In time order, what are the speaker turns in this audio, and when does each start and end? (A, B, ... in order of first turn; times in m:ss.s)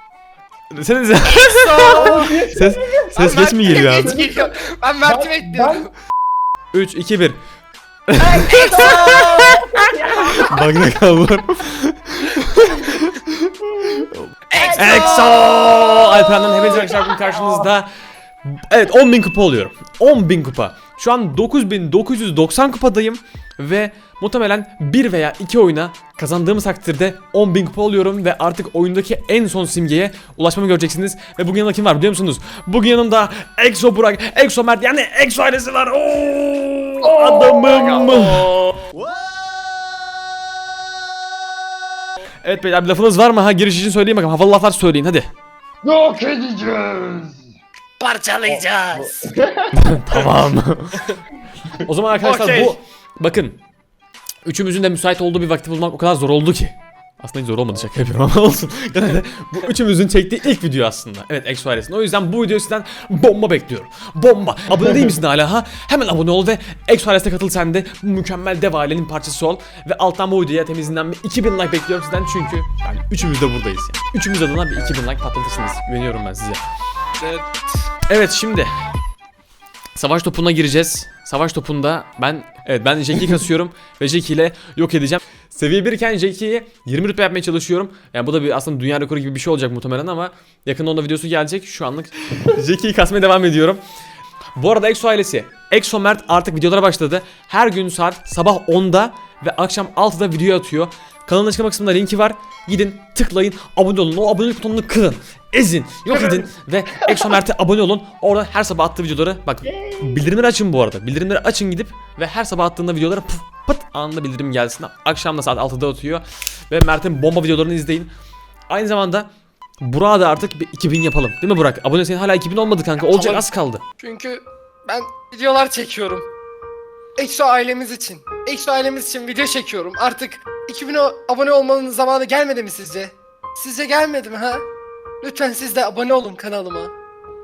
0:00.7-0:04.2 A
0:01.3-0:02.4 B
0:01.9-0:05.9 C
0:03.2-0:05.9 B
0:06.7-0:07.4 A
0:08.1-0:09.5 A
0:08.2-0:10.7 C
0:08.4-0:10.4 B
0:10.4-0:17.9 A
0:14.5-0:15.5 B
0:14.6-0:17.6 C
0:18.4-0:38.8 A
0:37.0-0:39.1 C
0:42.4-0:45.3 A
0:45.8-0:47.5 C
0:48.0-0:49.3 B
0:48.5-0:49.8 C
0:49.7-0:51.1 A
0:51.8-0:53.6 A
0:52.2-0:52.8 B
0:54.4-1:16.6 A
1:04.8-1:05.1 C
1:17.2-1:17.6 B
1:18.1-1:18.9 A
1:20.0-1:33.8 A
1:34.6-1:58.1 A
1:46.1-1:47.2 C
1:49.7-1:50.5 C
1:58.7-1:59.3 A
1:59.8-2:03.8 A
2:03.0-2:03.5 B
2:04.0-2:06.3 B
2:07.2-2:14.6 B
2:15.2-2:16.9 B